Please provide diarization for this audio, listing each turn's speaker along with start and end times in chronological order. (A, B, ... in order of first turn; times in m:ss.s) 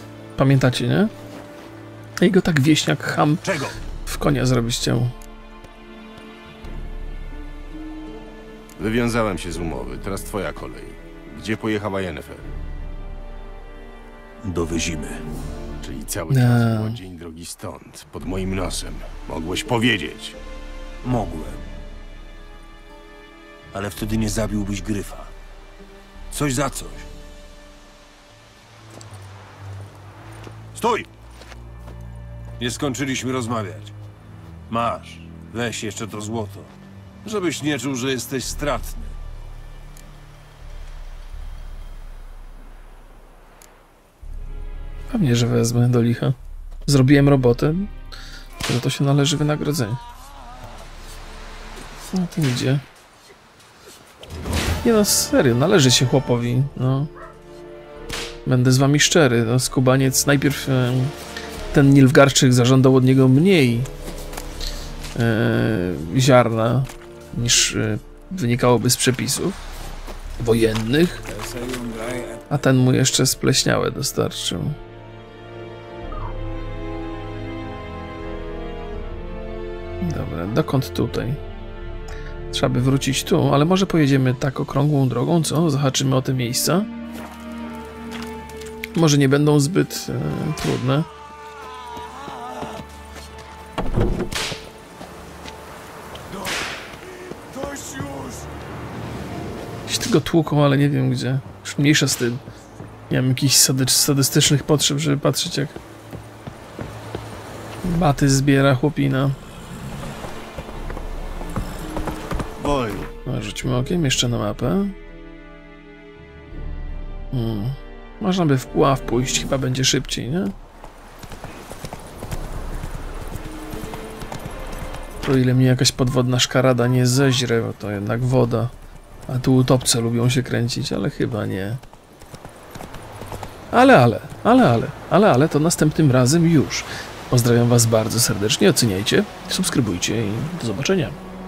0:00.4-0:01.1 A
0:02.2-0:03.4 A
0:03.4-0:03.8 B
0:04.0-0:05.1 A
0:08.8-0:12.5 C
0:14.4-0:15.2 B
0:15.8-0:20.4 C
0:16.3-0:17.0 A
0:21.0-0:21.7 B
0:23.7-0:25.3 B
0:26.3-0:27.1 B
0:30.7-0:31.1 B
0:32.6-0:33.9 B
0:34.7-0:36.7 B
0:37.2-0:39.2 B
0:45.1-0:46.4 A
0:46.9-0:47.9 A
0:48.6-0:50.0 A
0:52.1-0:52.8 A
0:54.8-0:57.1 A
0:58.4-1:01.1 A
1:01.7-1:03.9 A
1:05.1-1:09.6 A
1:10.4-1:11.2 A
1:11.3-1:12.5 B
1:12.5-1:14.8 A
1:20.0-1:21.4 A
1:22.5-1:26.9 A
1:28.9-1:31.1 A
1:37.5-1:38.5 B
1:39.9-1:42.4 A
1:43.1-1:45.8 A
1:47.8-1:49.4 A
1:52.6-1:53.1 C
1:53.2-1:54.9 A
1:57.3-2:00.5 A
2:05.2-2:08.7 A
2:09.3-2:11.8 A
2:13.7-2:21.2 A